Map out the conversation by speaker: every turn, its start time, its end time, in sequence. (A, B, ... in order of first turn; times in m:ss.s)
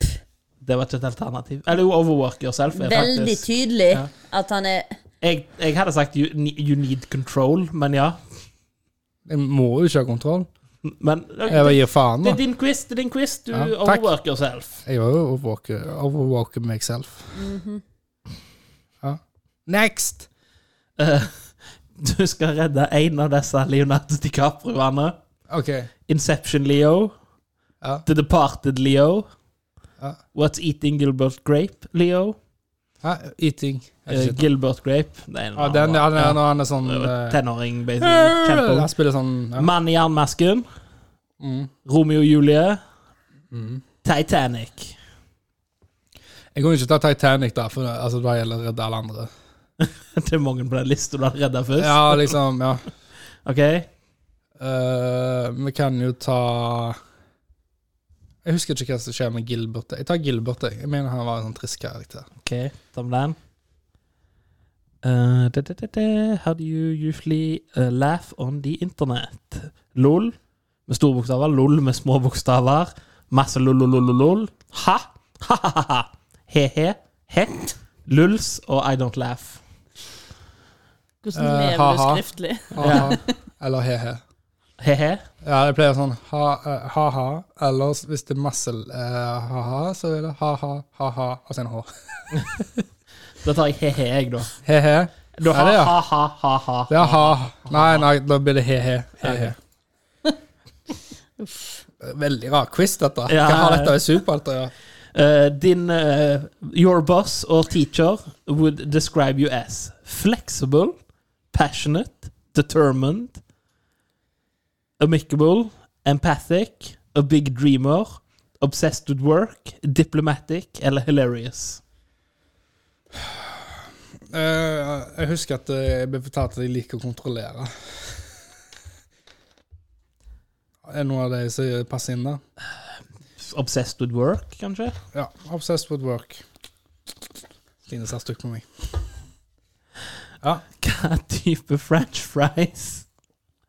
0:00.6-0:04.1 A
0:02.8-0:04.9 B
0:05.2-0:08.2 A
0:09.3-0:10.5 C
0:10.9-0:14.8 A
0:11.4-0:11.8 B
0:11.5-0:12.4 C
0:13.5-0:14.1 C
0:14.8-0:17.3 C
0:17.3-0:17.8 B
0:19.0-0:20.3 C
0:21.0-0:25.2 A
0:25.5-0:25.9 C
0:26.1-0:27.2 A
0:28.1-0:29.3 A
0:30.3-0:32.4 A
0:33.0-0:34.4 C
0:34.1-0:38.9 A
0:35.6-0:37.4 C
0:38.0-0:39.7 C
0:39.6-0:40.7 A
0:41.4-0:41.7 C
0:41.8-0:42.8 A
0:43.5-0:43.8 C
0:44.0-0:45.0 A
0:46.5-0:49.3 C
0:49.8-0:52.4 A
0:51.8-0:52.9 C
0:53.4-0:53.9 A
0:54.6-0:57.0 C
0:58.4-1:02.3 C
1:02.4-1:03.4 A
1:05.0-1:10.4 A
1:10.9-1:19.6 A
1:21.2-1:23.4 B
1:21.4-1:24.2 C
1:22.8-1:23.2 A
1:24.8-1:25.2 A
1:25.4-1:32.2 C
1:33.4-1:34.5 A
1:34.6-1:36.0 C
1:35.4-1:38.1 A
1:36.9-1:39.6 C
1:39.2-1:39.5 A
1:42.0-1:44.7 C
1:43.3-1:44.0 A
1:45.1-1:51.0 A
1:51.5-1:53.4 A
1:55.0-2:01.8 A
2:03.2-2:08.3 C
2:10.9-2:12.4 C
2:13.4-2:15.0 A
2:15.1-2:16.4 C
2:17.8-2:18.9 C
2:20.8-2:23.1 A